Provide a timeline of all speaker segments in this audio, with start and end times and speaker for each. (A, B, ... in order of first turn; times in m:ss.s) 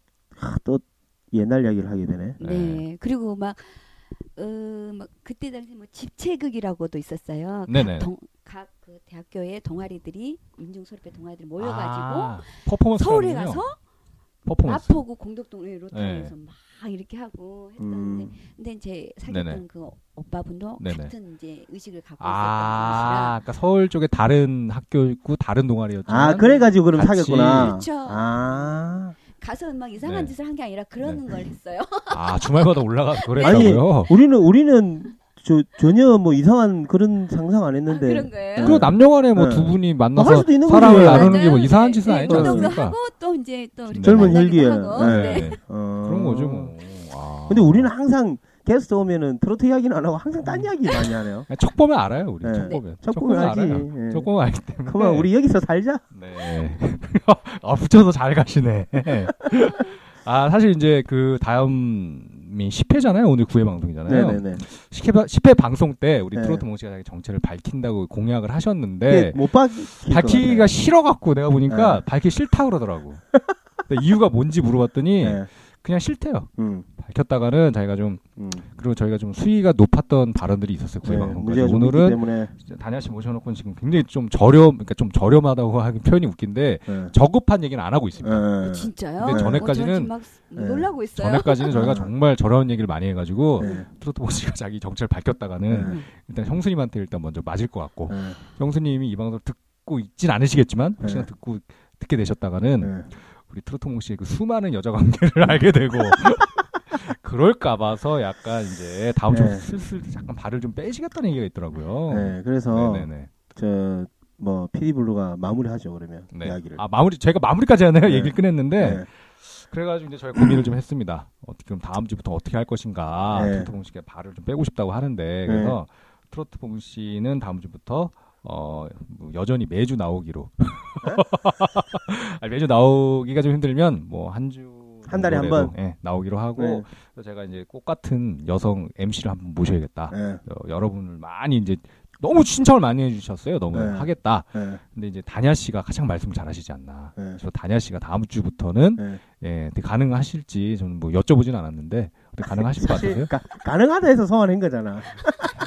0:00.4-0:02.4 A
0:02.4-0:13.8 B
0:02.4-0:02.8 C
0:07.7-0:08.1 C
0:11.6-0:13.6 C
0:14.5-0:15.0 C
0:14.6-0:23.4 B
0:15.9-0:16.3 C
0:17.8-0:18.3 A
0:19.3-0:19.6 C
0:20.8-0:21.1 C
0:22.2-0:27.8 C
0:26.1-0:29.2 A
0:27.6-0:28.7 B
0:29.2-0:32.4 B
0:30.0-0:30.3 C
0:32.1-0:34.1 C
0:33.2-0:34.0 B
0:33.4-0:41.4 A
0:37.9-0:38.8 B
0:38.6-0:43.0 C
0:40.7-0:45.6 B
0:42.3-0:42.8 A
0:43.9-0:44.4 C
0:44.0-0:46.7 A
0:45.0-0:47.9 C
0:47.5-0:51.5 A
0:50.4-0:50.7 C
0:51.5-0:55.3 C
0:52.4-0:54.3 A
0:52.6-0:52.8 B
0:54.9-0:56.0 A
0:56.1-1:09.4 C
1:04.1-1:04.6 A
1:06.4-1:06.6 A
1:09.1-1:10.7 A
1:10.0-1:13.2 C
1:11.7-1:12.0 A
1:13.9-1:16.5 C
1:15.2-1:15.5 A
1:16.6-1:16.8 A
1:17.0-1:18.2 C
1:18.4-1:18.6 A
1:18.8-1:28.5 C
1:21.0-1:22.5 A
1:28.2-1:29.7 A
1:28.6-1:32.0 B
1:29.2-1:30.1 C
1:30.6-1:30.9 A
1:31.2-1:53.3 C
1:31.7-1:32.1 A
1:33.6-1:33.9 A
1:33.6-1:33.9 B
1:35.7-1:36.0 A
1:35.8-1:36.1 B
1:38.1-1:38.4 A
1:41.0-1:41.3 A
1:49.3-1:49.6 A
1:52.1-1:56.8 A
1:56.3-2:33.3 C
1:58.0-1:59.1 A
2:03.3-2:03.7 A
2:05.5-2:05.8 A
2:15.1-2:15.8 A
2:16.6-2:16.8 A
2:20.1-2:20.4 A
2:23.7-2:24.8 A
2:32.5-2:35.5 A